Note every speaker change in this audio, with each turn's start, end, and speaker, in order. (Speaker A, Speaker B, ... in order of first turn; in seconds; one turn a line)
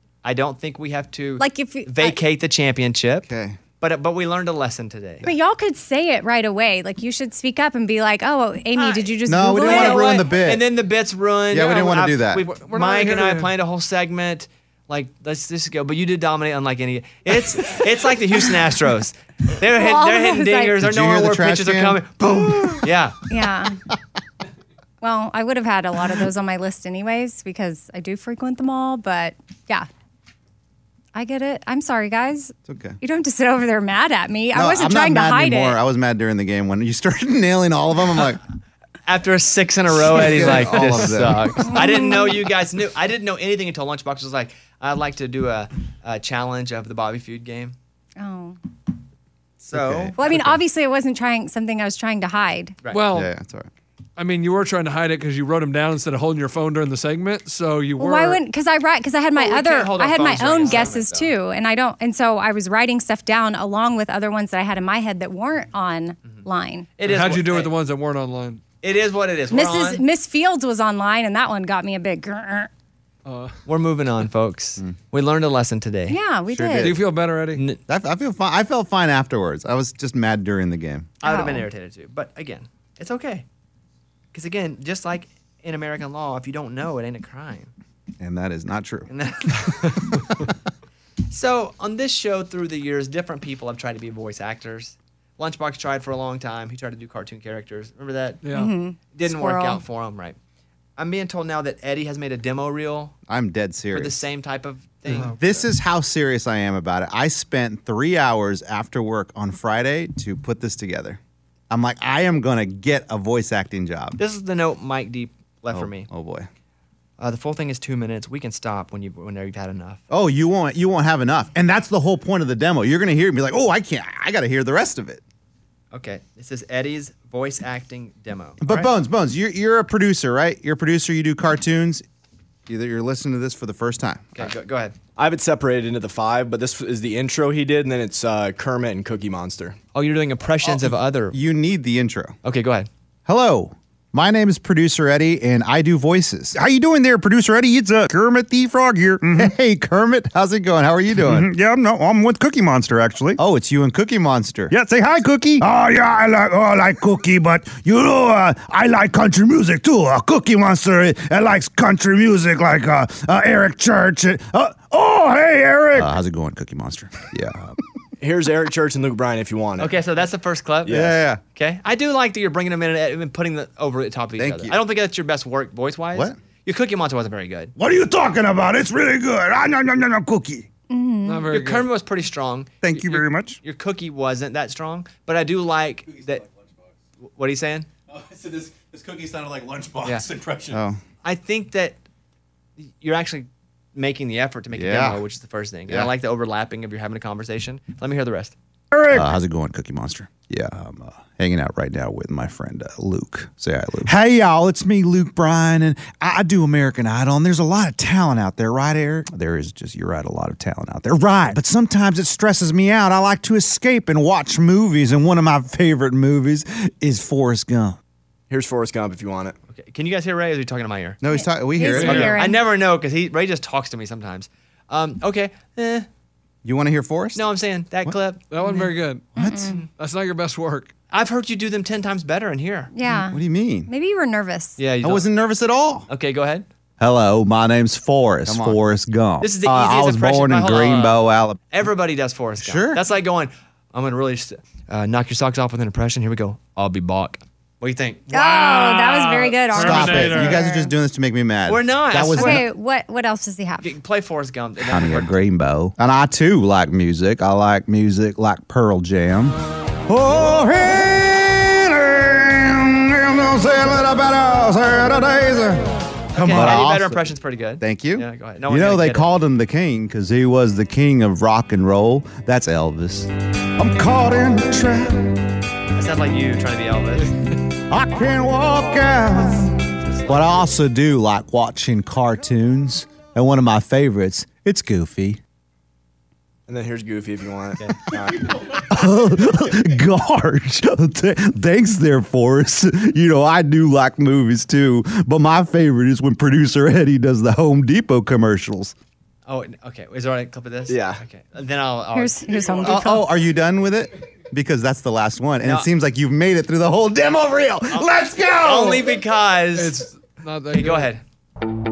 Speaker A: 0.2-3.3
Speaker B: 1.4-2.2
Speaker C: 3.3-3.6
Speaker A: 3.8-5.3
Speaker B: 5.2-10.3
Speaker A: 8.8-23.2
Speaker C: 9.2-10.7
Speaker C: 11.5-12.4
Speaker D: 12.5-13.5
Speaker B: 19.6-20.8
Speaker C: 20.8-22.9
Speaker B: 23.3-23.8
Speaker B: 25.0-29.9
Speaker B: 31.1-35.8
Speaker C: 32.7-33.0
Speaker C: 34.5-38.4
Speaker A: 39.0-47.8
Speaker C: 40.1-41.7
Speaker B: 41.7-42.4
Speaker B: 48.2-48.6
Speaker A: 49.6-50.3
Speaker C: 49.7-50.5
Speaker B: 50.1-52.8
Speaker D: 52.9-53.3
Speaker C: 53.1-53.7
Speaker D: 54.2-58.4
Speaker B: 58.0-66.9
Speaker A: 59.3-61.3
Speaker A: 66.2-67.7
Speaker D: 67.0-68.6
Speaker A: 68.8-70.0
Speaker B: 69.5-72.7
Speaker D: 73.2-73.5
Speaker A: 73.7-76.2
Speaker B: 76.1-77.0
Speaker C: 76.5-77.0
Speaker D: 76.8-77.6
Speaker C: 77.9-81.1
Speaker A: 81.2-83.5
Speaker B: 81.2-81.7
Speaker A: 84.3-87.7
Speaker C: 88.2-89.9
Speaker A: 89.1-90.3
Speaker A: 91.3-98.4
Speaker D: 98.4-98.7
Speaker B: 98.5-99.8
Speaker A: 99.1-100.4
Speaker A: 101.0-103.1
Speaker C: 103.3-104.2
Speaker A: 103.9-105.7
Speaker C: 105.1-114.2
Speaker A: 114.2-116.1
Speaker C: 115.7-116.5
Speaker A: 117.2-120.0
Speaker C: 120.1-125.2
Speaker A: 125.9-128.9
Speaker C: 128.6-132.0
Speaker C: 132.7-134.5
Speaker A: 134.3-135.0
Speaker E: 135.2-139.8
Speaker A: 139.9-141.3
Speaker C: 140.6-142.3
Speaker A: 142.4-142.9
Speaker C: 143.2-146.6
Speaker F: 146.6-149.5
Speaker C: 147.3-147.6
Speaker C: 149.3-151.5
Speaker F: 151.2-153.4
Speaker C: 153.4-154.7
Speaker F: 154.7-166.1
Speaker C: 165.9-167.7
Speaker E: 168.2-169.9
Speaker A: 169.8-177.7
Speaker E: 170.9-171.2
Speaker C: 170.9-171.4
Speaker C: 174.4-174.7
Speaker F: 177.8-180.7
Speaker B: 180.9-181.5
Speaker D: 181.2-181.9
Speaker A: 181.5-186.4
Speaker F: 182.8-183.6
Speaker G: 186.1-186.5
Speaker A: 187.2-187.9
Speaker G: 188.1-190.8
Speaker C: 190.7-191.0
Speaker A: 191.2-192.0
Speaker A: 192.8-198.6
Speaker C: 194.7-195.2
Speaker F: 198.9-199.3
Speaker C: 199.1-218.0
Speaker E: 218.5-219.6
Speaker A: 219.7-221.2
Speaker C: 221.2-222.4
Speaker B: 221.2-222.6
Speaker D: 221.9-222.3
Speaker A: 221.9-226.1
Speaker C: 226.6-227.5
Speaker A: 227.3-228.8
Speaker D: 228.5-229.3
Speaker B: 228.6-229.8
Speaker C: 229.4-229.7
Speaker D: 229.9-230.9
Speaker A: 231.1-232.9
Speaker B: 232.9-234.8
Speaker C: 233.1-233.9
Speaker A: 234.8-235.3
Speaker C: 235.0-236.1
Speaker A: 236.1-236.7
Speaker C: 237.0-241.6
Speaker A: 238.5-238.7
Speaker A: 239.4-248.3
Speaker C: 242.6-243.0
Speaker B: 248.3-250.9
Speaker D: 248.3-250.6
Speaker C: 249.7-252.7
Speaker A: 251.7-252.6
Speaker B: 252.3-253.9
Speaker A: 253.8-255.3
Speaker C: 254.9-259.6
Speaker C: 260.1-267.3
Speaker A: 266.3-269.3
Speaker C: 267.8-275.3
Speaker F: 273.9-274.4
Speaker A: 275.9-277.4
Speaker C: 277.9-285.4
Speaker A: 280.1-280.4
Speaker E: 286.7-288.5
Speaker C: 288.9-298.9
Speaker A: 299.5-303.1
Speaker E: 300.9-301.2
Speaker B: 302.1-303.3
Speaker C: 302.8-308.2
Speaker A: 305.6-305.9
Speaker A: 307.9-310.1
Speaker F: 308.1-309.0
Speaker D: 309.7-311.1
Speaker A: 310.7-311.2